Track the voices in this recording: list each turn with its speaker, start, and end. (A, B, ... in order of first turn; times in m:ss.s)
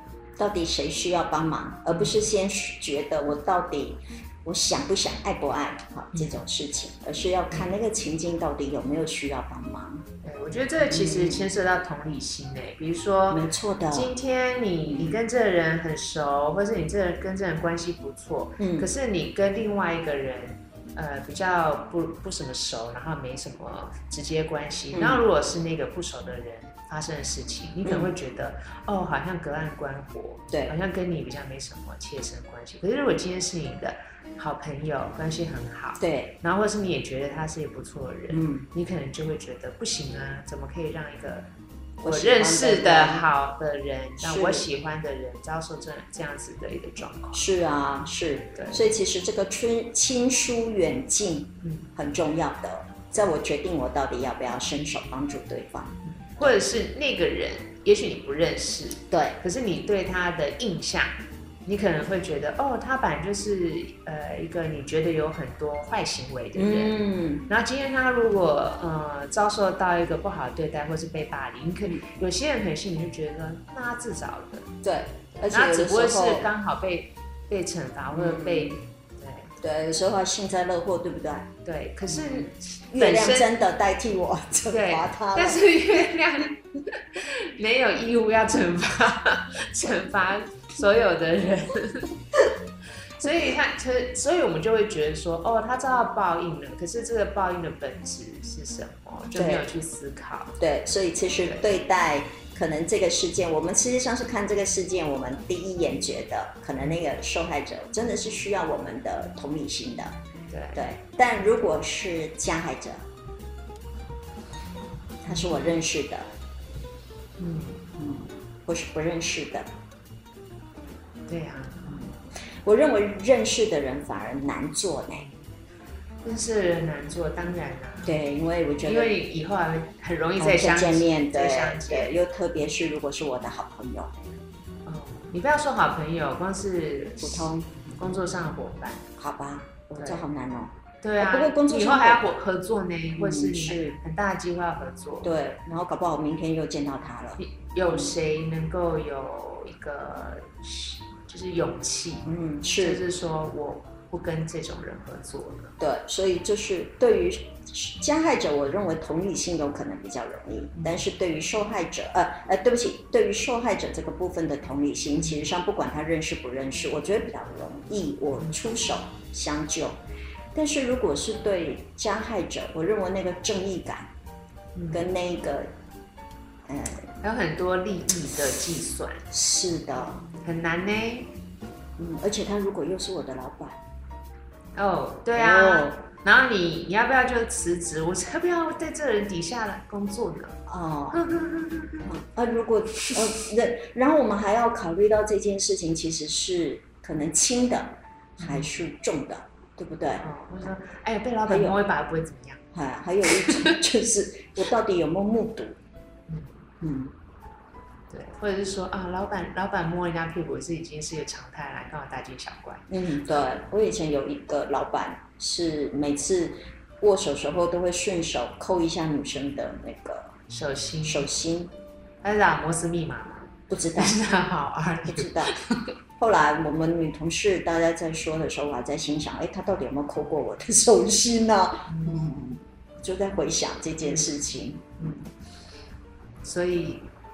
0:00.4-0:10.0 A
0:10.2-0:41.5 B
0:10.8-0:11.5 A
0:13.3-0:14.1 A
0:14.9-0:15.2 A
0:18.6-0:18.9 A
0:24.9-0:25.2 A
0:27.8-0:28.1 A
0:36.0-0:36.4 A
0:38.3-0:38.7 A
0:42.0-0:43.3 A
0:42.0-0:47.4 B
0:44.2-0:44.6 A
0:47.3-0:56.6 A
0:48.6-0:48.8 B
0:56.2-1:01.1 B
0:59.1-0:59.4 A
1:01.6-1:14.7 B
1:06.5-1:07.5 A
1:14.8-1:16.5 A
1:15.5-1:19.5 B
1:18.1-1:18.8 A
1:19.6-1:21.5 A
1:21.6-1:23.5 B
1:22.1-1:25.6 A
1:24.7-1:32.1 B
1:33.2-1:40.6 B
1:39.3-1:39.6 A
1:40.6-1:50.2 A
1:50.5-1:50.8 B
1:50.7-1:53.0 A
1:55.2-1:56.3 A
1:57.4-1:57.8 B
1:58.0-1:59.7 A
2:01.3-2:01.8 B
2:01.8-2:05.3 A
2:06.2-2:08.1 B
2:08.0-2:09.1 A
2:08.8-2:12.2 B
2:10.4-2:14.1 A
2:14.8-2:19.0 B
2:17.2-2:18.0 A
2:19.2-2:22.2 A
2:21.0-2:25.3 B
2:23.2-2:24.0 A
2:25.2-2:28.1 A
2:27.4-2:35.7 B
2:32.2-2:33.0 A
2:35.8-2:50.0 A
2:50.5-2:54.1 A
2:54.7-2:55.0 B
2:54.9-2:55.7 A
2:56.7-2:57.1 A
2:57.2-2:59.2 B
2:59.3-3:00.2 A
3:00.3-3:01.3 B
3:02.0-3:03.8 A
3:04.7-3:10.6 B
3:05.3-3:06.0 A
3:10.7-3:11.2 A
3:11.1-3:12.1 B
3:12.0-3:20.3 A
3:18.4-3:18.7 B
3:20.2-3:22.6 B
3:21.5-3:21.8 A
3:22.7-3:25.8 A
3:23.3-3:23.7 B
3:26.8-3:27.1 A
3:28.1-3:32.8 B
3:32.9-3:40.3 A
3:40.5-3:41.3 B
3:41.0-3:41.7 A
3:42.2-3:45.9 B
3:43.7-3:44.2 A
3:45.1-3:45.6 A
3:46.2-3:55.2 A
3:51.9-3:52.2 B
3:56.4-3:57.1 B